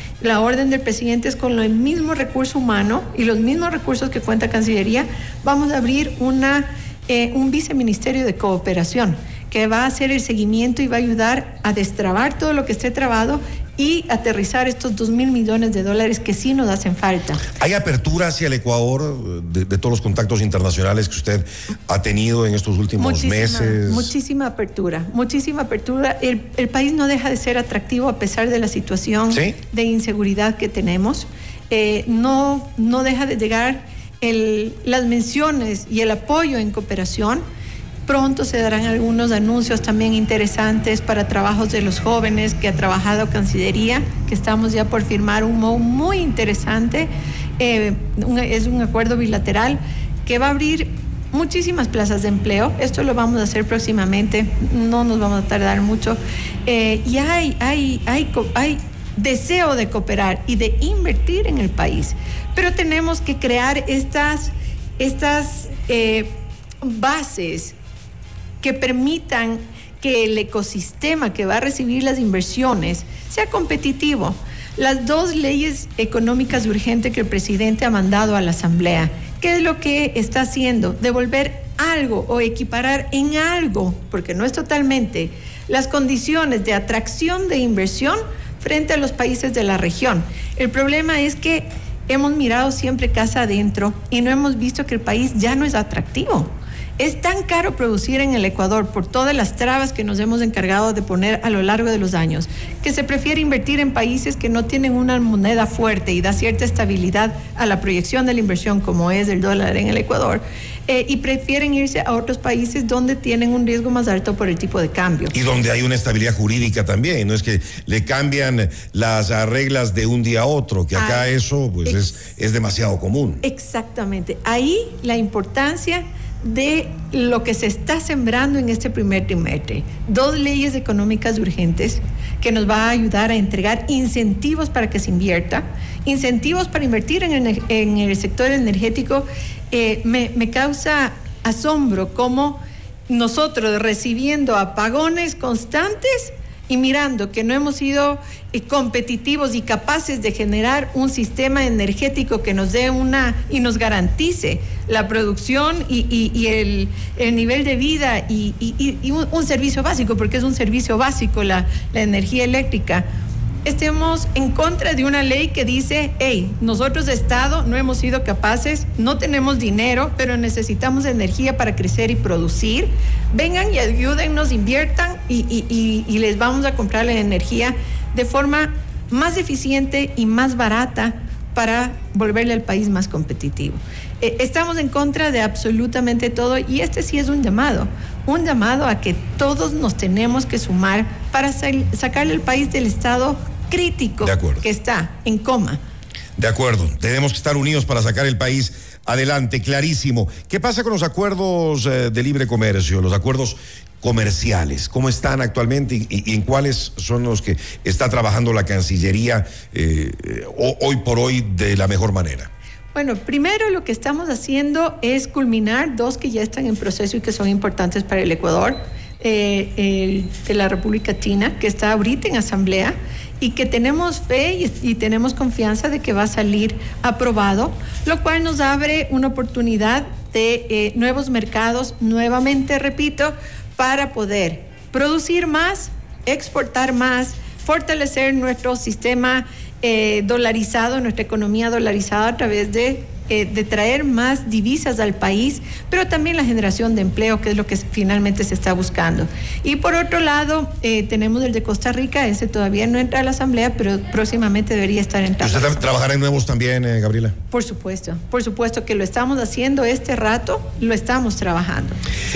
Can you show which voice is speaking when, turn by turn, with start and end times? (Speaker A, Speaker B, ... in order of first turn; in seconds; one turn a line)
Speaker A: 0.2-17.4
Speaker B: 17.6-24.1
Speaker A: 23.0-37.4
Speaker B: 29.3-29.6
Speaker A: 38.1-67.8
Speaker A: 68.6-115.3
Speaker B: 115.3-123.4
Speaker A: 120.9-121.3
Speaker A: 121.8-122.2
Speaker A: 123.4-163.1
Speaker A: 163.6-195.8
Speaker B: 194.2-194.6
Speaker B: 196.4-212.5
Speaker A: 212.9-255.9
Speaker B: 255.4-257.3
Speaker A: 257.5-262.0